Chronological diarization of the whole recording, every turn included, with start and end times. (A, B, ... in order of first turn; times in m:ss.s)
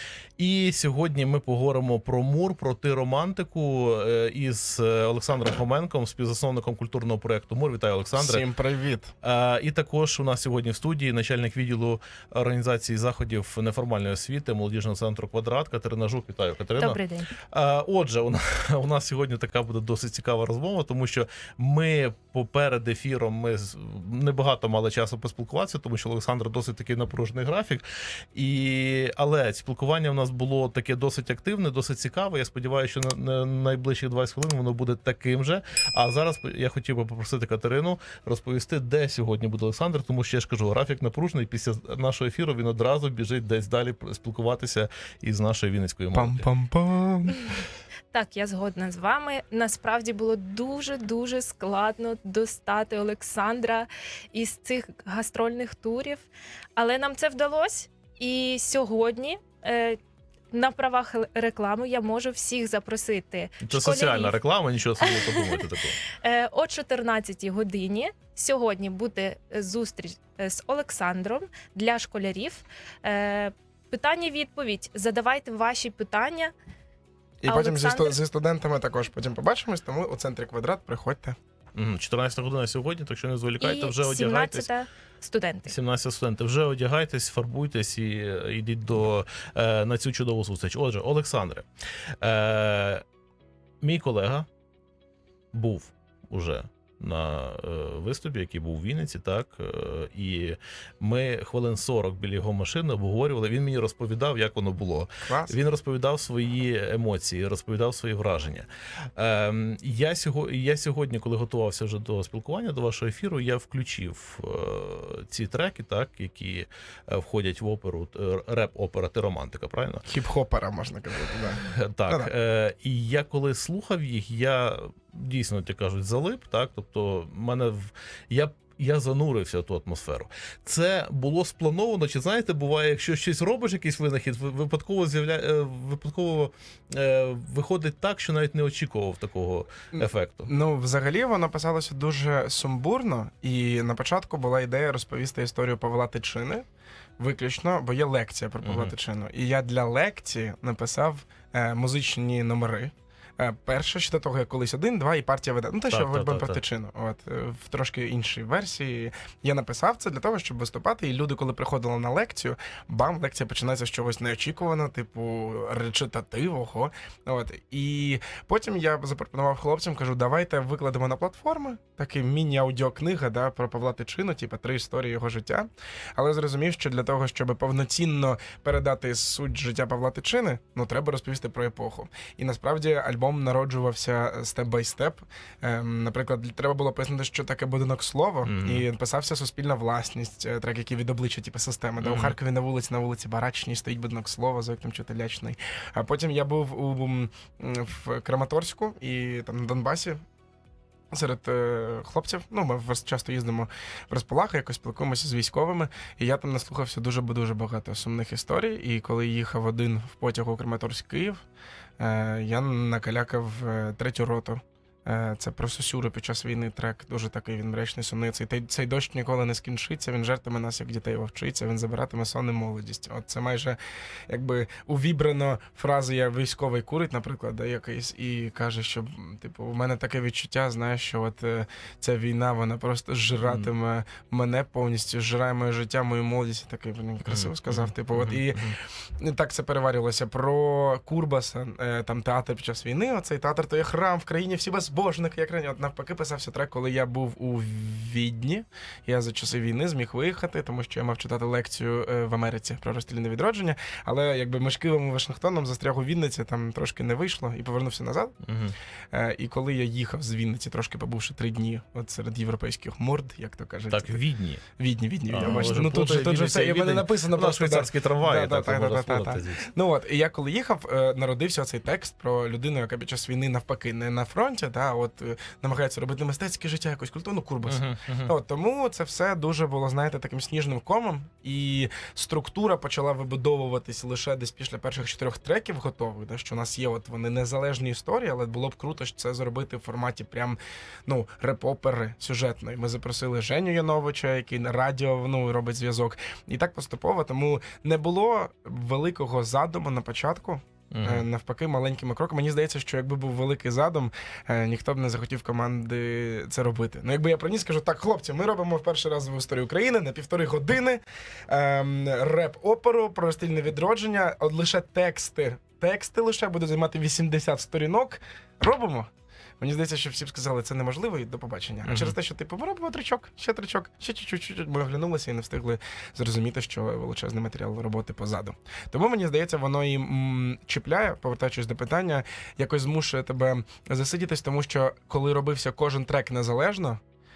0:00.4-0:08.4 A
0:08.2-0:09.1 B
0:09.2-0:46.5 A
0:16.8-0:17.3 C
0:46.1-0:47.4 B
0:48.1-1:00.0 C
1:00.5-1:04.4 C
1:03.6-1:06.0 A
1:05.0-1:16.5 C
1:17.4-1:21.4 B
1:17.4-1:18.2 C
1:21.7-1:24.7 A
1:23.6-1:25.7 C
1:25.7-1:33.0 A
1:33.8-1:34.5 A
1:35.5-2:00.1 A
1:45.2-1:45.6 B
2:00.0-2:02.3 B
2:01.5-2:20.5 A
2:19.9-2:26.6 B
2:27.2-3:20.2 B
2:28.6-2:28.9 A
2:35.9-2:36.6 A
3:08.4-3:08.8 A
3:12.0-3:12.3 A
3:21.1-3:31.4 B
3:32.0-4:18.4 B
3:57.2-3:58.8 A
4:18.4-4:18.8 A
4:19.1-5:37.0 B
4:23.9-4:24.6 A
4:25.3-4:29.7 A
4:37.6-4:38.3 A
5:00.9-5:01.2 A
5:21.8-5:22.1 A